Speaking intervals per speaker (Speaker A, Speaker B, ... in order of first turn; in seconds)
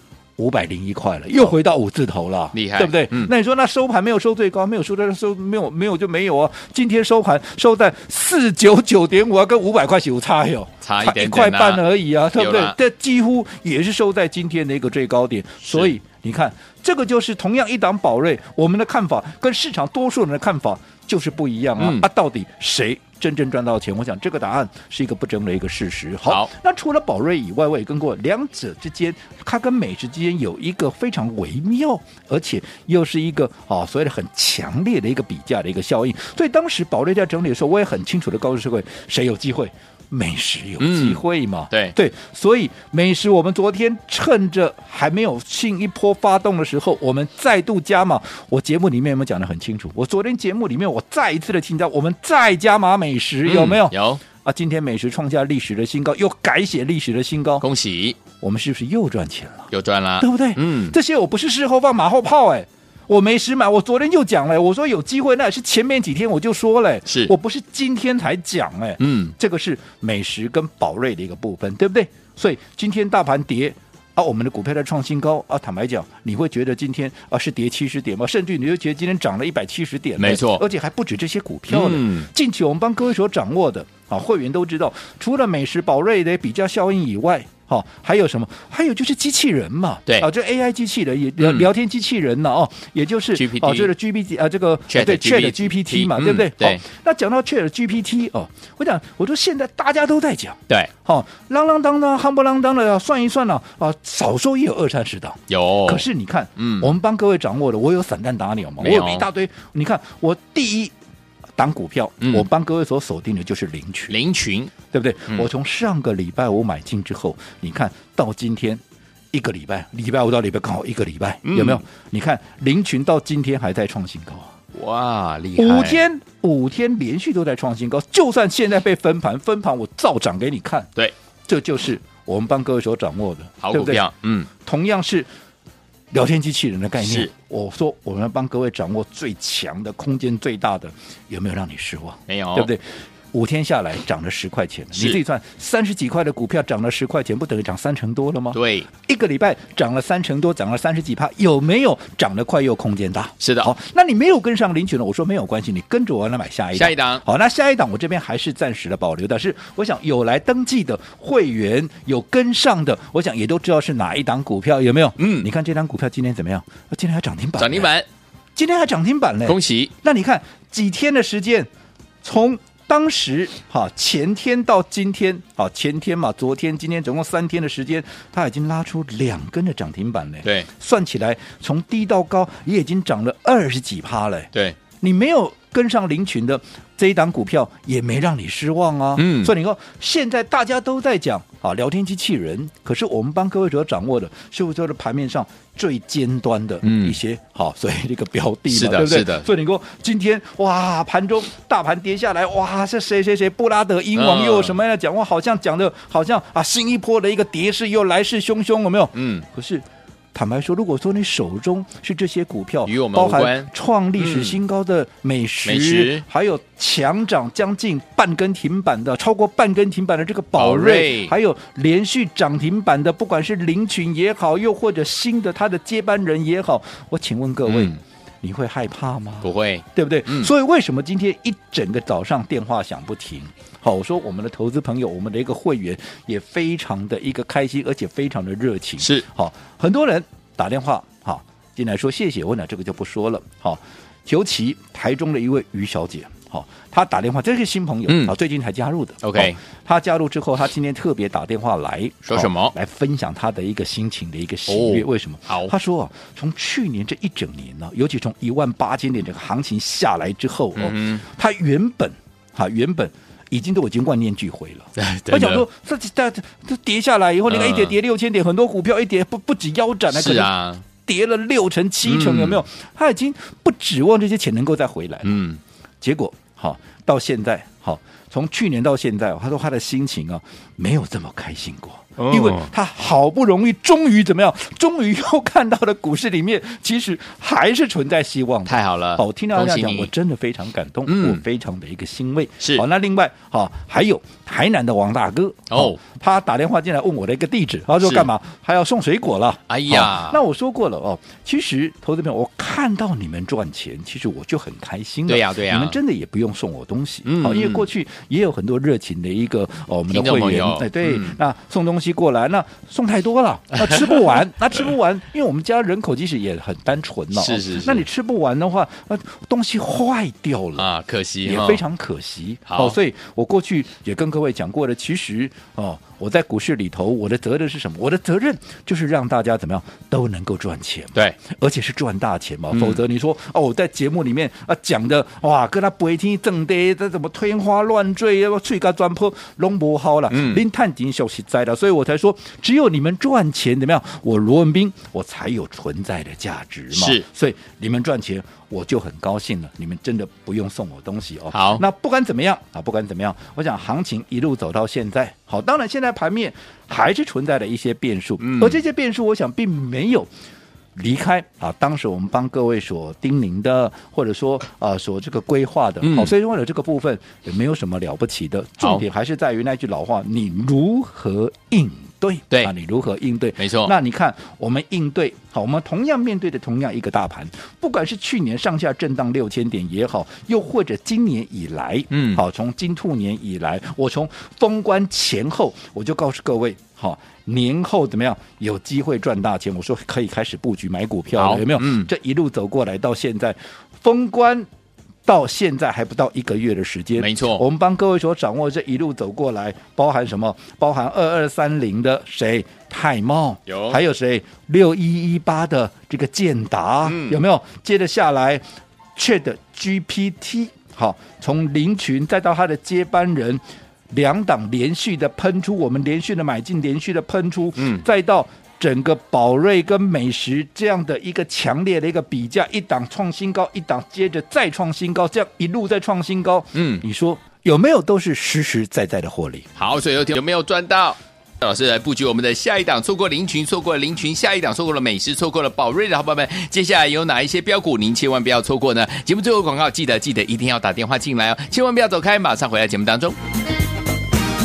Speaker A: 0.4-57.6, 58.3-110.9, 111.6-114.2, 114.9-124.5, 125.5-130.9, 131.5-134.0, 134.6-135.3, 136.1-167.9, 168.6-171.7, 172.2-275.4, 276.0-320.9, 321.4-360.3, 360.9-394.7, 395.2-408.6, 409.1-429.7
Speaker B: 2.5-3.3, 10.8-12.7, 15.7-15.9, 21.8-22.1, 40.8-41.9, 53.4-54.2, 57.6-58.2, 59.7-61.0, 67.0-67.3, 69.0-69.3, 80.2-80.6, 81.7-82.3, 91.4-91.7, 93.3-93.9, 94.9-96.8, 105.5-106.0, 106.6-106.9, 108.8-109.3, 112.2-112.5, 114.1-114.7, 121.4-121.8, 124.7-126.0, 133.6-134.5, 137.0-137.3, 142.3-142.7, 144.9-145.2, 148.5-148.9, 153.4-153.7, 156.7-157.2, 165.2-165.5, 167.6-168.1, 169.4-169.9, 180.4-180.7, 189.2-189.5, 196.8-197.2, 198.7-199.4, 204.1-204.8, 209.1-209.4, 212.8-214.6, 215.6-216.2, 220.6-221.3, 227.7-228.0, 229.4-230.5, 239.0-239.2, 248.1-248.3, 249.2-249.6, 252.2-252.7, 254.7-255.7, 260.8-261.2, 264.9-265.6, 267.5-267.9, 270.1-270.8, 272.0-272.6, 275.2-275.6, 282.2-282.7, 288.6-290.1, 291.1-291.4, 295.7-296.0, 298.0-298.3, 299.7-300.4, 305.3-306.0, 307.2-307.8, 310.1-311.4, 313.8-314.3, 317.3-318.0, 320.8-321.8, 322.7-322.9, 332.7-333.0, 340.3-340.6, 346.9-347.2, 351.5-351.8, 358.4-358.8, 366.0-366.3, 373.6-373.9, 382.1-382.4, 391.3-392.1, 397.2-397.6, 403.7-404.0, 407.1-407.4, 417.8-418.0, 426.7-427.0, 429.8-443.4